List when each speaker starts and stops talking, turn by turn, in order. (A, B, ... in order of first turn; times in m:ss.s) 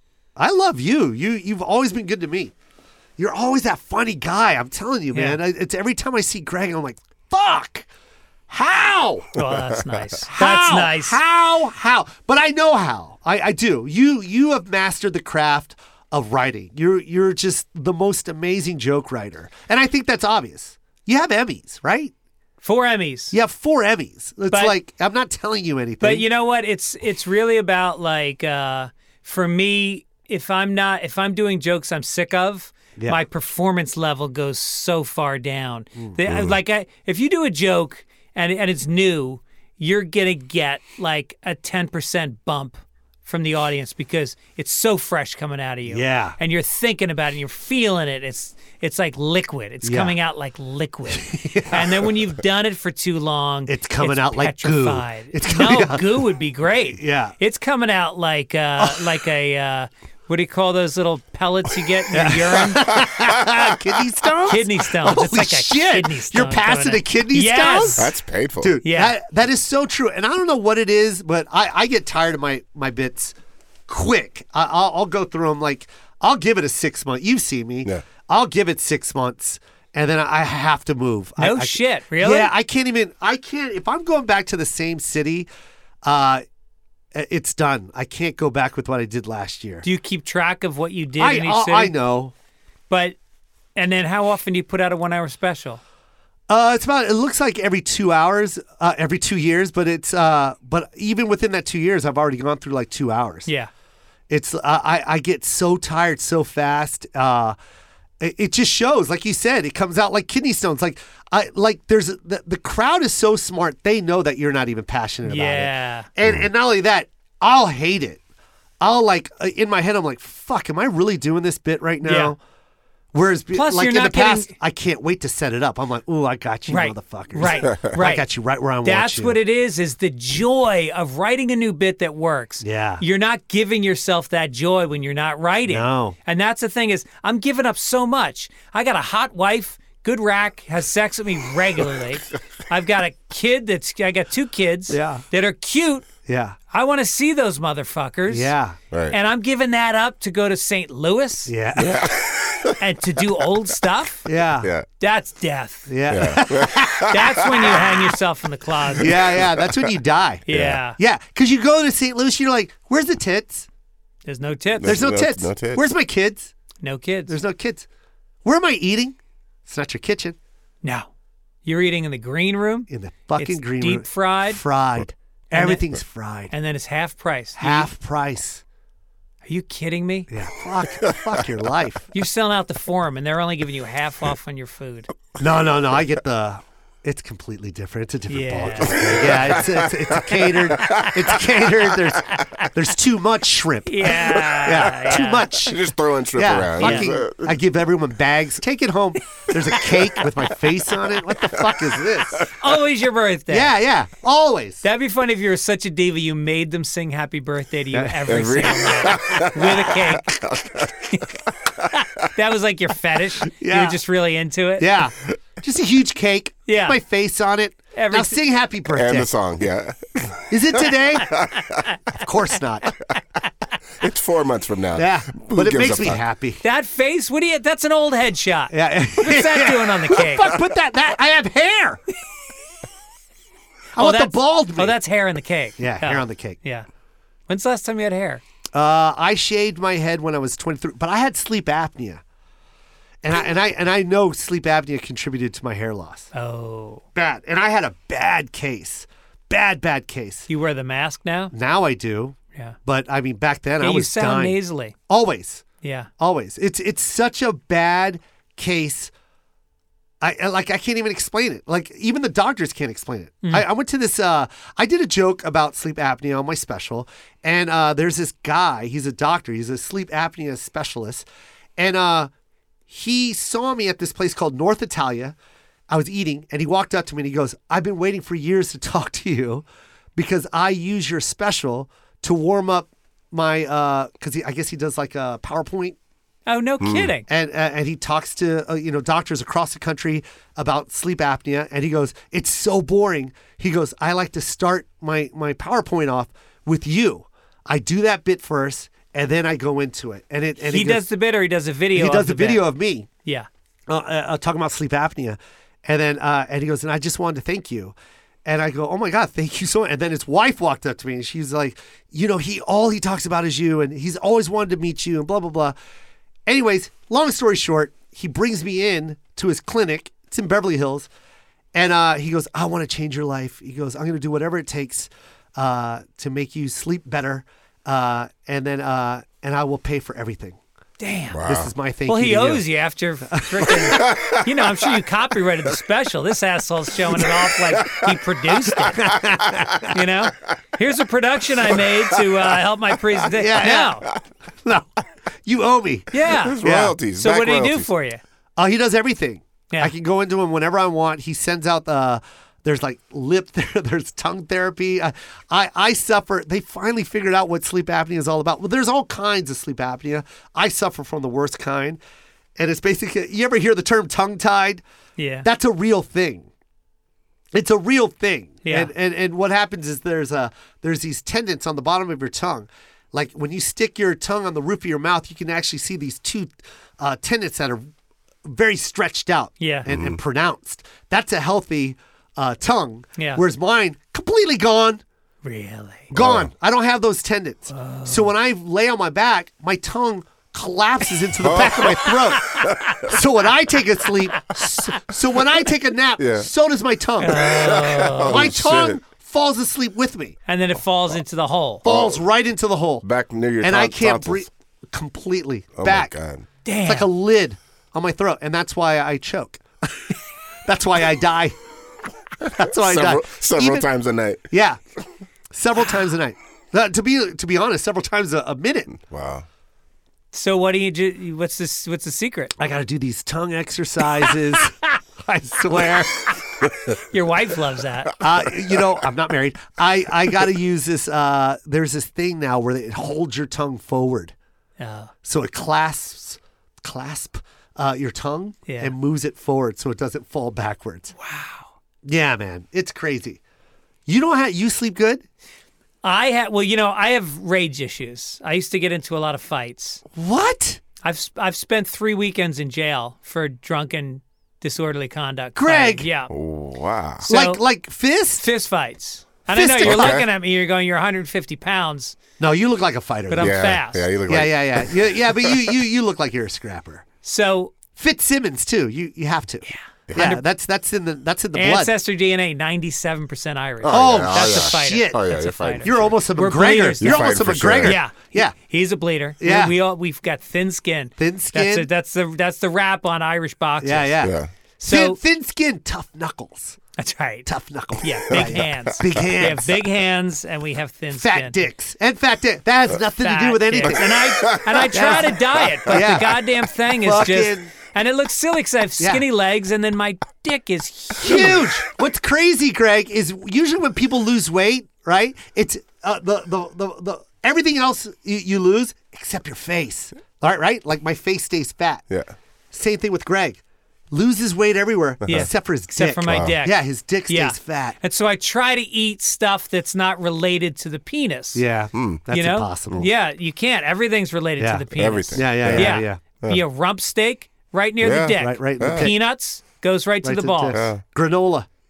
0:00.4-0:02.5 A
0:03.2-0:07.9 A
0:05.1-0:05.4 B
0:08.5-0:09.3 A
0:09.4-0:11.2 B
0:10.3-0:22.1 A
0:22.6-0:23.4 B
0:23.3-0:26.2 A
0:26.0-1:02.9 B
0:45.9-0:46.4 A
0:49.8-0:50.2 A
0:51.1-0:52.1 A
0:53.7-0:56.2 A
0:57.0-0:57.4 A
1:02.1-1:13.4 A
1:03.1-1:03.6 C
1:04.5-1:08.1 B
1:08.0-1:08.8 C
1:08.8-1:09.2 B
1:13.9-1:25.5 A
1:21.4-1:22.5 B
1:26.0-1:26.4 A
1:27.1-1:29.9 A
1:29.8-1:32.0 B
1:31.2-1:32.3 A
1:32.9-1:33.2 B
1:33.8-1:35.8 B
1:36.5-1:43.5 A
1:44.3-1:47.6 A
1:48.2-1:58.2 A
1:55.2-1:56.1 B
1:58.8-2:02.4 A
2:02.0-2:02.4 B
2:03.1-2:09.4 A
2:03.5-2:04.5 B
2:06.7-2:08.3 B
2:08.8-2:26.1 B
2:12.6-2:13.0 A
2:15.7-2:16.2 A
2:24.9-2:25.2 A
2:26.3-2:26.6 A
2:26.7-2:28.5 B
2:28.3-2:28.8 A
2:28.9-2:29.2 C
2:29.1-2:31.5 B
2:31.5-2:32.0 A
2:31.8-2:32.8 C
2:32.8-2:34.3 B
2:34.3-2:34.7 A
2:34.6-2:34.9 C
2:35.0-2:35.9 B
2:35.9-2:37.2 A
2:36.1-2:38.0 C
2:37.1-2:39.2 B
2:39.0-2:43.7 A
2:39.1-2:39.9 C
2:40.5-2:41.0 B
2:40.5-2:40.8 C
2:44.3-2:45.0 B
2:44.7-2:45.8 C
2:44.8-2:46.5 A
2:46.8-2:47.4 B
2:47.3-2:47.9 A
2:48.4-2:50.4 A
2:50.8-2:51.1 B
2:51.6-2:54.6 B
2:52.9-2:56.5 A
2:55.5-2:55.8 B
2:56.5-2:57.9 B
2:57.6-2:58.6 A
2:59.4-3:00.3 B
3:00.3-3:02.1 A
3:01.1-3:01.4 C
3:02.1-3:05.1 B
3:05.4-3:22.6 A
3:08.3-3:09.2 B
3:08.9-3:11.1 C
3:10.8-3:11.1 B
3:12.3-3:12.7 B
3:13.9-3:15.5 B
3:15.5-3:17.6 C
3:16.8-3:17.1 B
3:22.5-3:23.7 B
3:23.5-3:24.8 A
3:24.8-3:30.3 B
3:27.9-3:28.3 A
3:28.3-3:30.9 C
3:31.0-3:31.4 B
3:31.9-3:34.9 B
3:33.6-3:34.0 A
3:34.8-3:39.3 A
3:36.7-3:37.0 B
3:38.0-3:38.4 B
3:38.9-3:41.6 C
3:40.5-3:41.4 A
3:42.1-3:43.0 A
3:44.0-3:46.2 C
3:45.0-3:46.6 A
3:46.6-3:50.6 B
3:48.7-3:52.0 A
3:54.0-3:55.0 A
3:54.0-3:56.9 B
3:55.8-3:56.6 A
3:57.5-3:58.4 B
3:58.7-4:02.2 A
4:03.2-4:06.3 A
4:06.3-4:07.0 B
4:07.2-4:10.5 A
4:10.5-4:11.5 B
4:11.5-4:15.6 A
4:13.8-4:15.0 B
4:15.8-4:16.1 B
4:16.2-4:19.1 A
4:20.2-4:31.3 A
4:31.8-4:32.3 A
4:32.9-4:35.4 A
4:35.9-4:39.6 A
4:40.2-4:46.0 A
4:46.5-4:47.3 B
4:46.8-4:47.1 C
4:47.3-5:01.0 A
5:00.6-5:02.7 B
5:01.9-5:03.1 A
5:03.9-5:08.0 A
5:08.5-5:15.8 A
5:16.5-5:21.1 A
5:21.7-5:30.6 A
5:31.0-5:31.4 B
5:31.3-5:31.7 C
5:31.5-5:32.6 A
5:32.1-5:39.0 B
5:33.3-5:34.1 A
5:33.9-5:34.5 C
5:38.7-5:39.9 A
5:39.9-5:44.1 B
5:43.3-5:44.9 A
5:45.4-5:46.1 A
5:46.1-5:46.6 B
5:46.2-5:47.9 C
5:46.6-5:47.0 A
5:47.1-5:48.2 B
5:48.6-6:02.0 A
6:02.6-6:04.8 A
6:05.2-6:05.5 B
6:05.4-6:06.5 A
6:07.5-6:17.9 A
6:08.6-6:08.9 B
6:18.5-6:25.0 A
6:19.6-6:19.9 B
6:19.9-6:20.2 C
6:23.2-6:23.4 B
6:25.4-6:26.1 B
6:26.1-6:40.4 A
6:26.1-6:26.5 C
6:27.7-6:28.3 B
6:31.4-6:33.1 C
6:36.2-6:36.5 C
6:37.2-6:38.5 B
6:37.3-6:39.0 C
6:40.5-6:41.8 B
6:41.8-6:43.1 A
6:41.8-6:42.2 C
6:43.0-6:44.4 C
6:43.6-6:46.1 A
6:45.8-6:46.5 C
6:46.6-6:47.1 B
6:46.9-6:51.6 A
6:52.4-6:53.9 A
6:52.5-6:54.5 C
6:54.5-6:54.8 A
6:55.5-6:59.0 A
6:59.0-6:59.4 C
7:00.3-7:02.6 B
7:02.6-7:06.7 A
7:07.0-7:08.1 B
7:08.2-7:14.3 A
7:14.8-7:15.1 B
7:15.2-7:21.1 A
7:18.7-7:19.0 B
7:21.2-7:21.7 B
7:22.0-7:23.4 A
7:24.1-7:25.2 A
7:26.0-7:30.0 B
7:30.2-7:30.8 A
7:31.0-7:36.3 B
7:35.6-7:36.1 A
7:36.3-7:37.3 C
7:37.2-7:37.6 B
7:37.3-7:38.5 A
7:38.4-7:42.2 B
7:39.5-7:40.3 A
7:39.8-7:40.3 C
7:42.4-7:43.7 A
7:43.3-7:44.1 B
7:43.4-7:45.8 C
7:44.3-7:47.1 A
7:47.2-7:47.7 B
7:47.9-7:51.9 A
7:49.6-7:50.4 B
7:51.5-8:04.3 B
7:53.8-7:56.2 C
7:53.9-7:58.6 A
7:57.0-7:58.0 C
7:59.4-7:59.8 A
8:01.2-8:01.9 A
8:03.8-8:06.8 A
8:04.2-8:04.5 C
8:04.8-8:05.2 B
8:07.0-8:07.5 B
8:07.5-8:09.8 A
8:08.0-8:11.6 B
8:11.1-8:14.1 A
8:13.2-8:21.6 B
8:14.1-8:16.1 C
8:14.9-8:17.7 A
8:19.0-8:19.2 A
8:21.2-8:32.0 A
8:32.7-8:38.0 A
8:35.3-8:41.6 B
8:36.3-8:36.6 C
8:41.6-8:43.1 A
8:41.9-8:42.2 C
8:42.3-8:50.8 B
8:44.6-8:46.2 A
8:44.9-8:46.6 C
8:48.0-8:49.1 C
8:48.4-8:49.2 A
8:50.2-8:51.7 A
8:50.7-8:51.0 C